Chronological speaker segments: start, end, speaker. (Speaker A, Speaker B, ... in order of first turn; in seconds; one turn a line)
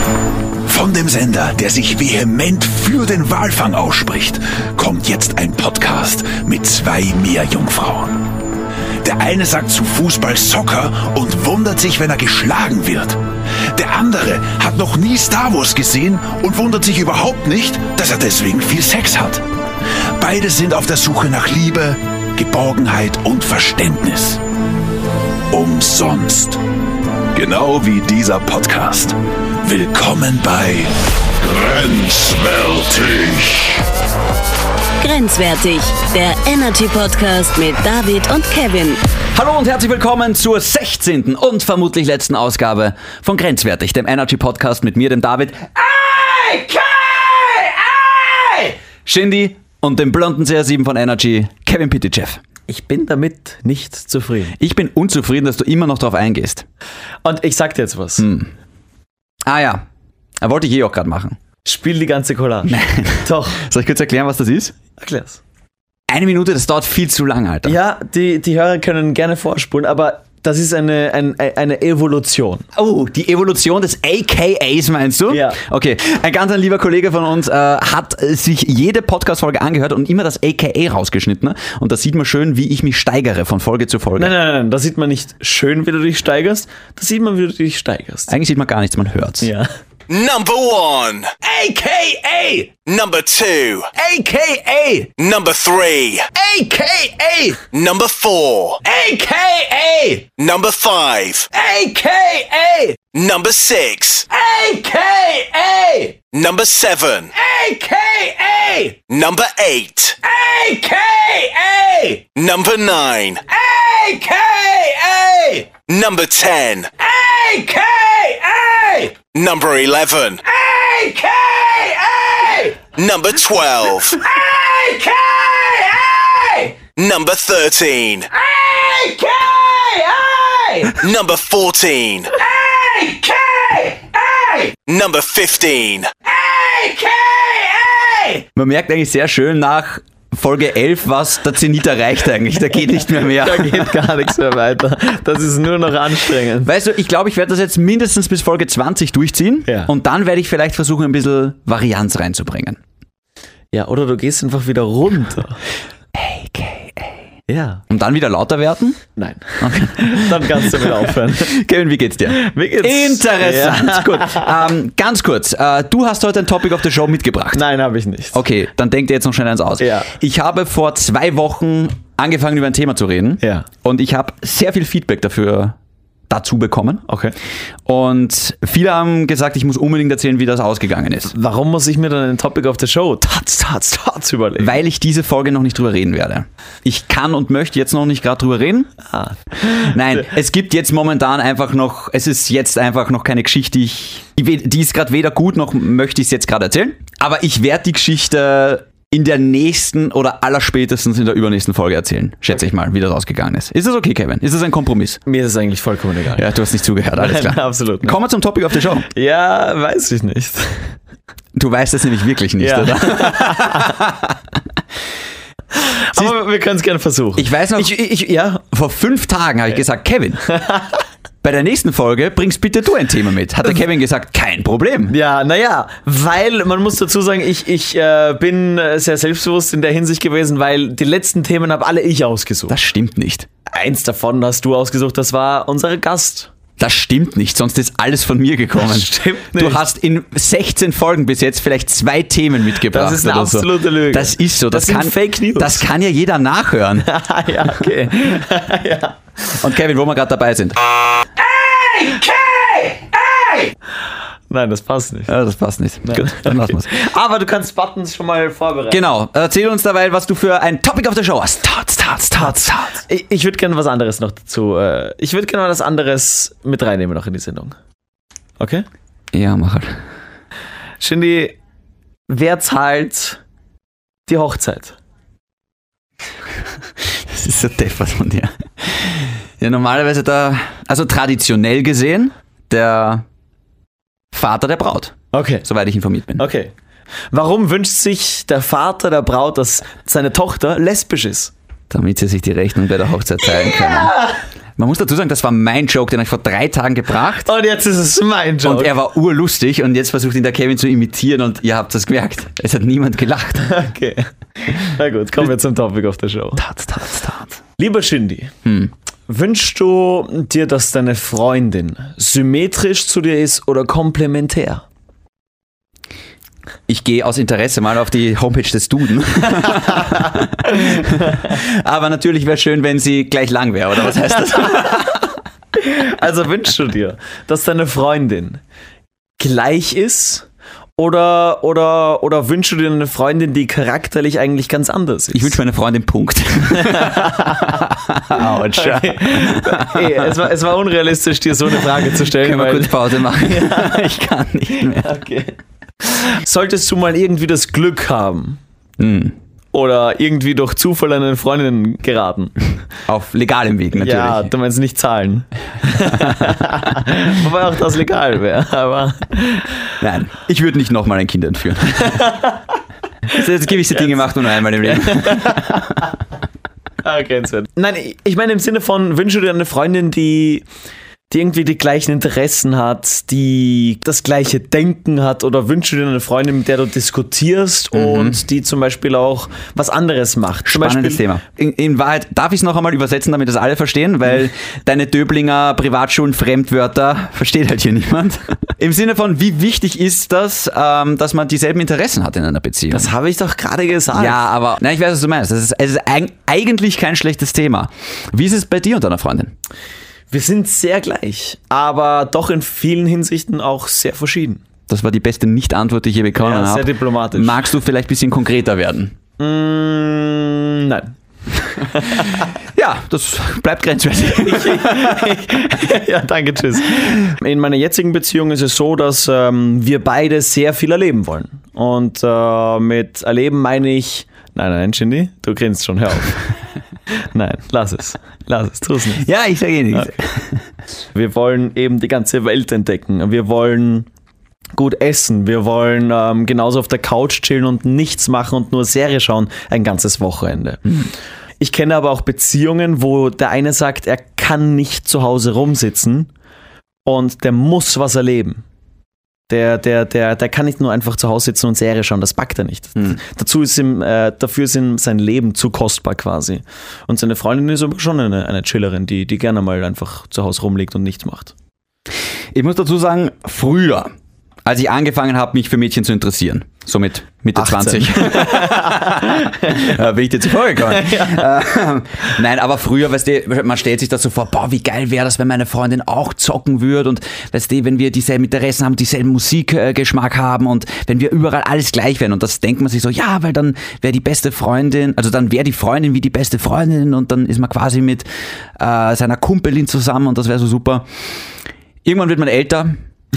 Speaker A: 0.7-8.1
Speaker B: 0.7-8.0
Speaker A: 9.0-13.1
Speaker B: 9.1-13.1
Speaker A: 13.8-19.4
Speaker B: 13.8-19.2
Speaker A: 20.2-24.4
Speaker B: 20.2-24.4
Speaker B: 25.5-26.6
Speaker B: 27.4-30.9
Speaker B: 31.4-33.6
Speaker C: 35.0-39.0
Speaker A: 39.3-52.4
Speaker D: 52.7-54.6
Speaker A: 54.6-56.6
Speaker D: 57.2-58.3
Speaker A: 58.2-58.5
Speaker A: 59.4-59.8
Speaker A: 60.4-61.4
Speaker D: 61.6-63.6
Speaker A: 62.6-64.7
Speaker D: 65.0-65.4
Speaker A: 66.1-67.8
Speaker D: 67.6-72.7
Speaker A: 72.7-84.3
Speaker D: 75.3-75.6
Speaker D: 84.2-88.3
Speaker A: 88.3-89.5
Speaker D: 89.4-89.7
Speaker E: 90.1-91.3
Speaker A: 91.4-92.7
Speaker E: 92.8-93.9
Speaker A: 93.9-95.1
Speaker E: 95.2-96.3
Speaker A: 96.3-97.6
Speaker E: 97.7-98.8
Speaker A: 98.8-100.3
Speaker E: 100.4-101.5
Speaker A: 101.5-103.0
Speaker E: 103.1-104.2
Speaker A: 104.3-106.2
Speaker E: 106.3-107.3
Speaker A: 107.3-109.0
Speaker E: 109.1-110.2
Speaker A: 110.2-112.3
Speaker E: 112.3-113.4
Speaker A: 113.5-115.7
Speaker E: 115.9-116.9
Speaker A: 117.0-119.1
Speaker E: 119.3-120.4
Speaker A: 120.4-122.8
Speaker E: 122.9-124.2
Speaker A: 124.1-126.8
Speaker E: 127.0-128.3
Speaker A: 128.3-131.0
Speaker E: 131.0-132.3
Speaker A: 132.3-134.8
Speaker E: 134.9-136.1
Speaker A: 136.2-144.1
Speaker D: 143.1-146.7
Speaker A: 146.6-152.8
Speaker D: 149.7-149.9
Speaker D: 153.7-155.6
Speaker A: 156.1-157.2
Speaker D: 157.5-157.8
Speaker A: 157.9-159.0
Speaker D: 159.2-161.5
Speaker A: 159.6-167.6
Speaker D: 162.3-164.5
Speaker D: 167.5-168.4
Speaker A: 168.3-175.8
Speaker D: 169.8-170.1
Speaker D: 173.4-173.7
Speaker A: 176.3-177.0
Speaker D: 177.1-177.3
Speaker A: 177.8-181.3
Speaker D: 181.3-184.8
Speaker A: 184.6-188.9
Speaker D: 189.1-190.2
Speaker A: 189.6-205.2
Speaker D: 205.2-206.4
Speaker A: 206.3-209.1
Speaker D: 207.1-208.2
Speaker D: 209.1-210.9
Speaker A: 211.5-214.3
Speaker D: 212.6-214.0
Speaker D: 215.8-218.6
Speaker A: 217.3-217.9
Speaker A: 218.7-220.4
Speaker D: 220.5-221.0
Speaker A: 221.4-225.1
Speaker D: 225.1-232.8
Speaker A: 232.7-233.5
Speaker D: 233.7-236.5
Speaker A: 236.8-247.1
Speaker D: 238.8-239.8
Speaker D: 242.9-245.8
Speaker D: 247.0-249.2
Speaker A: 249.5-253.7
Speaker D: 254.5-255.3
Speaker A: 255.3-256.9
Speaker D: 256.0-259.0
Speaker A: 258.9-263.0
Speaker D: 263.0-267.8
Speaker D: 268.6-268.9
Speaker A: 269.3-270.0
Speaker D: 271.0-271.6
Speaker D: 272.3-273.4
Speaker D: 274.3-274.9
Speaker A: 277.1-283.2
Speaker A: 284.3-286.5
Speaker D: 285.3-285.6
Speaker D: 286.4-286.7
Speaker D: 287.3-291.5
Speaker A: 291.9-294.2
Speaker D: 293.5-294.4
Speaker A: 294.8-297.5
Speaker D: 297.4-298.9
Speaker A: 298.6-303.7
Speaker D: 303.7-306.6
Speaker A: 306.6-307.6
Speaker D: 307.8-308.5
Speaker A: 308.6-308.9
Speaker D: 309.3-314.8
Speaker A: 316.9-325.3
Speaker D: 321.0-321.4
Speaker D: 325.8-328.6
Speaker D: 329.4-335.6
Speaker A: 335.3-340.4
Speaker D: 336.7-344.1
Speaker A: 342.2-345.1
Speaker D: 344.7-348.6
Speaker A: 349.0-349.4
Speaker D: 349.7-352.8
Speaker A: 353.1-354.5
Speaker D: 353.9-359.8
Speaker A: 360.0-362.2
Speaker D: 362.0-362.6
Speaker A: 363.3-365.9
Speaker D: 363.3-366.1
Speaker D: 367.0-370.6
Speaker D: 371.3-381.2
Speaker A: 377.9-378.4
Speaker A: 380.6-393.1
Speaker D: 392.9-394.4
Speaker A: 394.1-399.5
Speaker D: 400.3-404.6
Speaker A: 404.9-409.1
Speaker D: 406.4-407.6
Speaker D: 409.4-411.1
Speaker D: 411.7-412.4
Speaker A: 412.7-415.4
Speaker D: 414.4-426.4
Speaker D: 427.2-429.3
Speaker A: 429.2-430.6
Speaker D: 431.1-434.1
Speaker D: 434.8-441.0
Speaker D: 441.6-446.3
Speaker D: 447.0-448.6
Speaker D: 449.5-461.5
Speaker A: 462.5-464.1
Speaker A: 464.6-491.1
Speaker D: 467.6-469.9
Speaker D: 470.8-471.4
Speaker A: 492.0-493.0